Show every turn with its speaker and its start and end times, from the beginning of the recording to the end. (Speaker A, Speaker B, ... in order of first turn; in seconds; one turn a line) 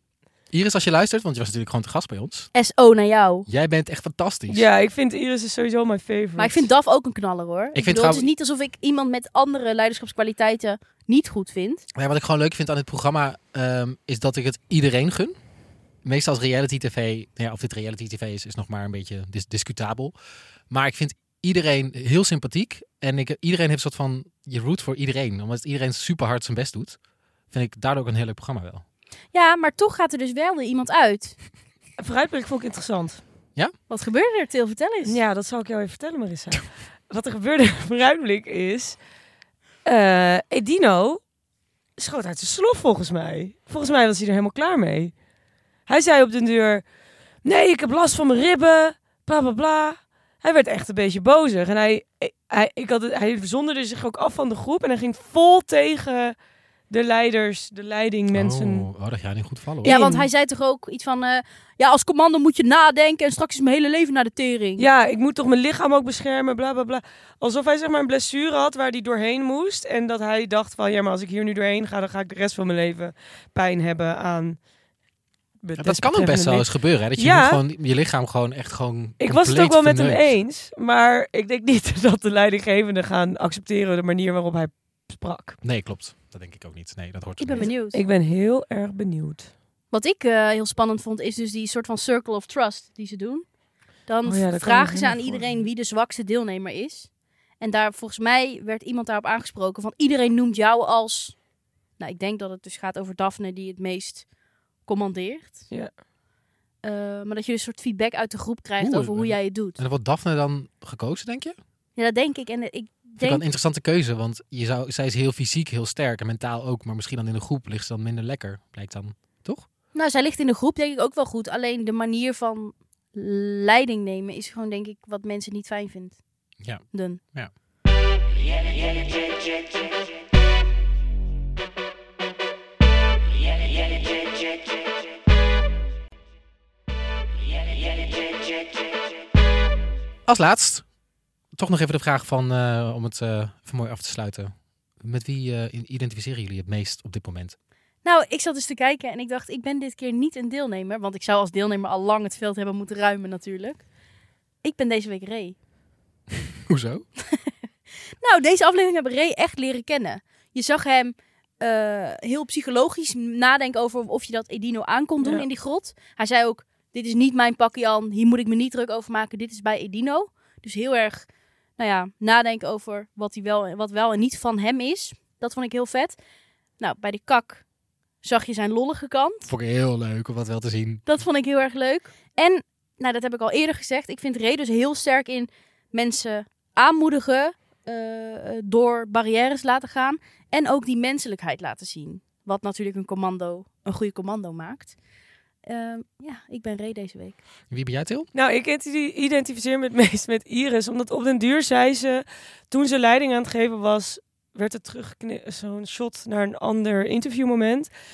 Speaker A: 0.5-2.5
Speaker B: 2.5-3.5
Speaker A: 3.5-4.6
Speaker C: 4.5-6.7
Speaker B: 6.4-11.8
Speaker A: 7.7-8.3
Speaker A: 11.9-15.3
Speaker A: 16.0-20.1
Speaker A: 20.7-27.0
Speaker A: 27.5-28.8
Speaker B: 29.3-31.4
Speaker C: 32.0-33.2
Speaker B: 33.9-35.2
Speaker C: 35.0-39.0
Speaker C: 39.8-41.2
Speaker C: 42.0-45.1
Speaker C: 45.9-46.8
Speaker C: 47.4-56.3
Speaker C: 56.9-58.9
Speaker A: 58.3-60.0
Speaker C: 59.8-60.2
Speaker B: 59.8-64.8
Speaker C: 64.8-74.6
Speaker C: 75.6-77.6
Speaker A: 75.8-80.2
Speaker C: 79.2-85.6
Speaker A: 85.6-87.7
Speaker B: 87.4-88.0
Speaker C: 87.7-89.5
Speaker B: 89.9-93.5
Speaker B: 94.1-101.4
Speaker C: 94.2-95.6
Speaker B: 102.0-104.2
Speaker B: 104.8-105.7
Speaker B: 106.8-109.8
Speaker A: 108.8-111.5
Speaker B: 112.0-113.4
Speaker A: 113.2-119.7
Speaker B: 119.9-126.2
Speaker A: 126.6-127.5
Speaker B: 126.9-127.2
Speaker A: 140.2-140.8
Speaker A: 141.6-147.6
Speaker B: 148.0-153.8
Speaker B: 154.6-155.6
Speaker A: 156.7-157.0
Speaker B: 158.2-176.2
Speaker B: 176.8-177.6
Speaker B: 178.2-179.5
Speaker A: 179.5-181.0
Speaker B: 181.0-194.9
Speaker B: 195.7-197.4
Speaker A: 197.7-198.3
Speaker C: 198.3-207.9